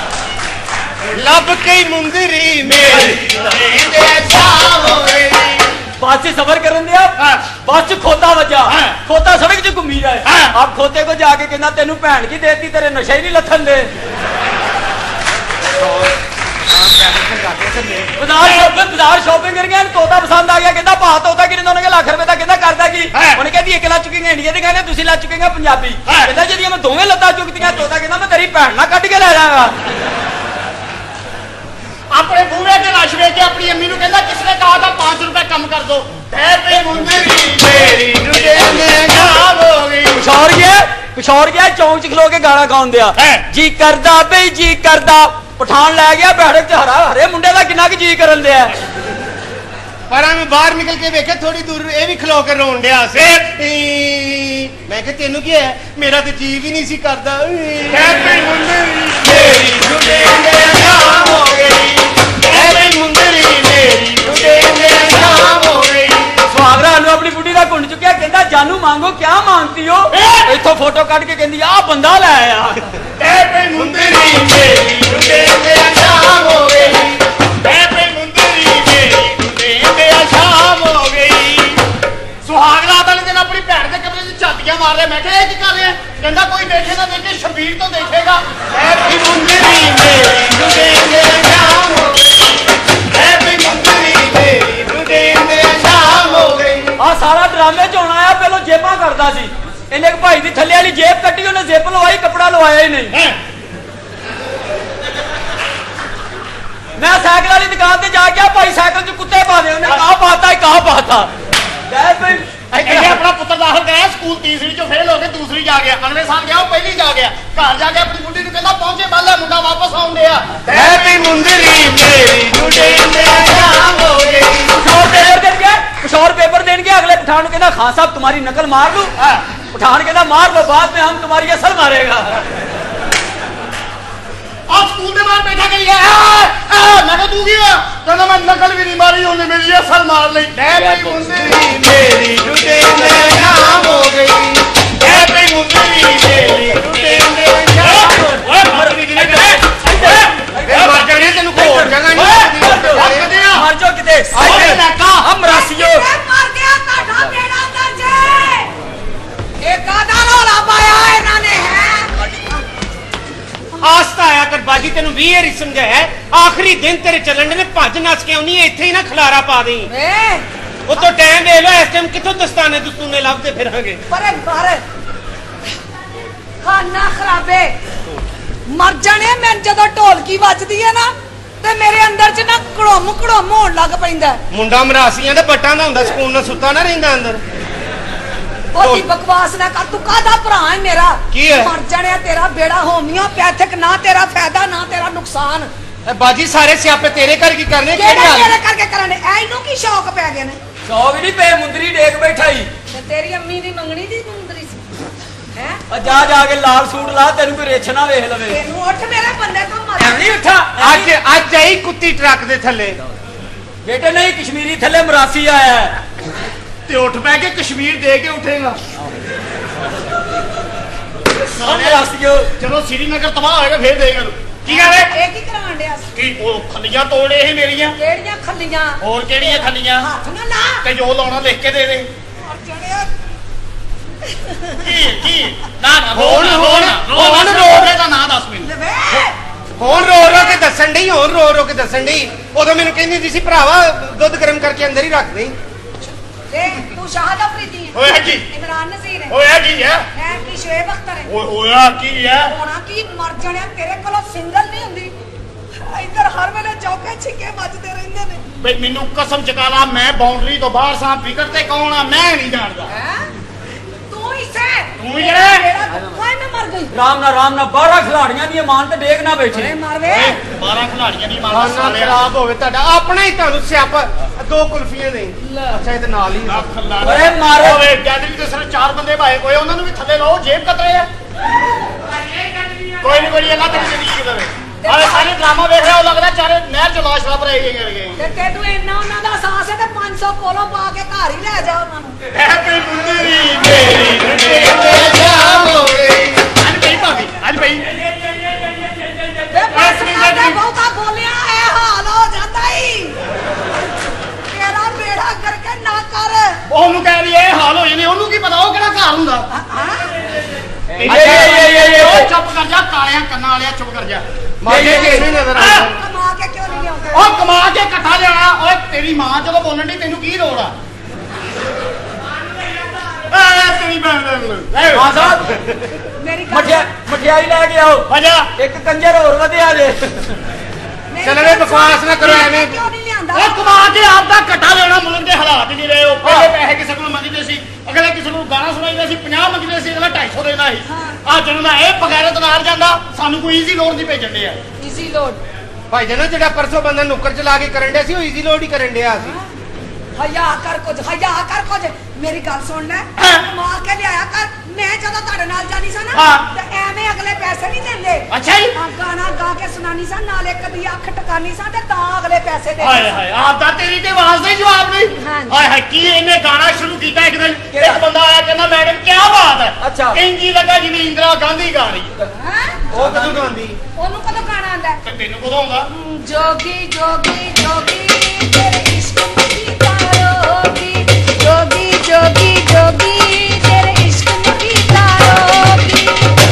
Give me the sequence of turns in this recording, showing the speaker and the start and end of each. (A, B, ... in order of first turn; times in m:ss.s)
0:01.1-0:05.5 A
0:03.5-0:04.4 B
0:06.0-0:13.9 C
0:15.8-0:16.1 A
0:16.7-0:18.1 A
0:18.2-0:29.7 C
0:32.1-0:40.2 B
0:36.7-0:39.9 A
0:40.2-0:48.7 C
0:43.2-0:43.4 B
0:50.1-0:58.5 A
0:57.9-0:59.4 B
0:59.2-1:03.3 A
1:01.0-1:01.6 B
1:02.4-1:06.3 B
1:04.2-1:06.0 A
1:06.5-1:12.8 C
1:10.2-1:10.5 B
1:13.2-1:15.4 B
1:13.7-1:17.2 A
1:17.6-1:21.8 B
1:22.4-1:28.4 B
1:28.7-1:32.2 A
1:33.1-1:36.9 A
1:37.0-1:43.2 C
1:43.1-1:43.4 B
1:47.0-1:51.3 C
1:51.9-1:53.2 C
1:52.8-2:01.9 B
2:00.6-2:04.7 A
2:02.6-2:03.6 B
2:04.7-2:09.1 C
2:09.7-2:12.4 C
2:14.7-2:21.5 B
2:20.7-2:25.4 A
2:20.8-2:21.3 C
2:23.0-2:23.8 B
2:25.0-2:27.2 B
2:26.2-2:28.1 A
2:27.0-2:36.1 C
2:27.8-2:29.6 B
2:28.7-2:30.1 A
2:30.7-2:33.4 A
2:32.8-2:33.6 B
2:34.3-2:35.0 A
2:34.4-2:35.2 B
2:35.4-2:38.7 D
2:39.6-2:42.1 D
2:43.8-2:49.9 A
2:49.9-2:50.5 D
2:50.9-2:54.0 A
2:54.1-2:54.8 D
2:56.6-2:57.7 D
2:58.7-3:04.4 D
3:04.5-3:07.4 A
3:08.7-3:15.7 D
3:08.8-3:09.1 A
3:11.3-3:11.7 A
3:16.1-3:18.5 A
3:17.9-3:20.6 D
3:20.9-3:22.7 C
3:22.9-3:24.9 D
3:25.5-3:26.3 D
3:25.9-3:28.6 C
3:28.5-3:30.4 D
3:30.2-3:33.0 A
3:30.7-3:31.1 C
3:33.8-3:36.0 C
3:36.9-3:38.8 B
3:38.2-3:38.6 A
3:41.4-3:42.5 C
3:41.6-3:42.0 B
3:42.6-3:45.1 B
3:44.7-3:46.1 D
3:46.2-3:48.0 B
3:48.0-3:50.8 D
3:49.0-3:50.1 B
3:50.8-3:52.1 B
3:52.5-3:53.1 D
3:54.8-3:58.7 B
3:56.1-3:58.0 A
3:58.6-3:59.3 D
3:59.8-4:05.6 A
4:06.5-4:09.4 D
4:08.0-4:08.4 B
4:09.3-4:10.0 B
4:10.1-4:11.3 D
4:11.3-4:12.5 B
4:12.5-4:15.1 D
4:15.8-4:18.4 D
4:18.6-4:22.9 B
4:22.9-4:23.3 D
4:24.1-4:26.9 D
4:25.0-4:25.4 B
4:25.0-4:25.6 A
4:25.9-4:26.2 C
4:26.9-4:29.7 C
4:29.5-4:30.4 D
4:30.1-4:32.2 B
4:31.5-4:36.7 A
4:36.5-4:41.1 B
4:37.0-4:37.9 C
4:43.0-4:48.2 B
4:44.8-4:45.4 D
4:48.2-4:52.2 D
4:52.4-4:56.4 A
4:52.4-4:53.6 B
4:54.2-4:55.7 B
4:56.4-4:57.8 B
4:59.5-5:03.2 D
4:59.7-5:00.6 B
5:04.5-5:06.6 D
5:06.7-5:09.5 B
5:09.5-5:10.1 D
5:10.9-5:12.3 C
5:11.0-5:11.9 A
5:11.0-5:14.2 B
5:14.6-5:16.0 A
5:14.7-5:15.3 C
5:14.8-5:15.8 B
5:15.4-5:17.3 D
5:17.1-5:20.7 B
5:23.3-5:25.0 B
5:24.7-5:25.8 A
5:24.9-5:25.5 C
5:26.2-5:26.9 D
5:26.5-5:30.4 C
5:28.1-5:28.5 B
5:31.1-5:33.7 D
5:31.2-5:32.8 A
5:32.1-5:32.6 B
5:33.3-5:44.6 B
5:36.2-5:36.5 A
5:40.9-5:41.2 D
5:44.8-5:45.4 D
5:45.9-5:49.4 A
5:50.2-6:03.1 D
5:58.3-5:58.7 A
5:58.4-5:58.7 B
6:02.8-6:12.1 B
6:05.2-6:05.6 D
6:07.7-6:08.0 C
6:09.8-6:10.2 C
6:12.4-6:12.8 D
6:12.9-6:13.5 C
6:12.9-6:13.8 A
6:14.0-6:15.0 D
6:15.0-6:15.9 B
6:15.9-6:26.4 D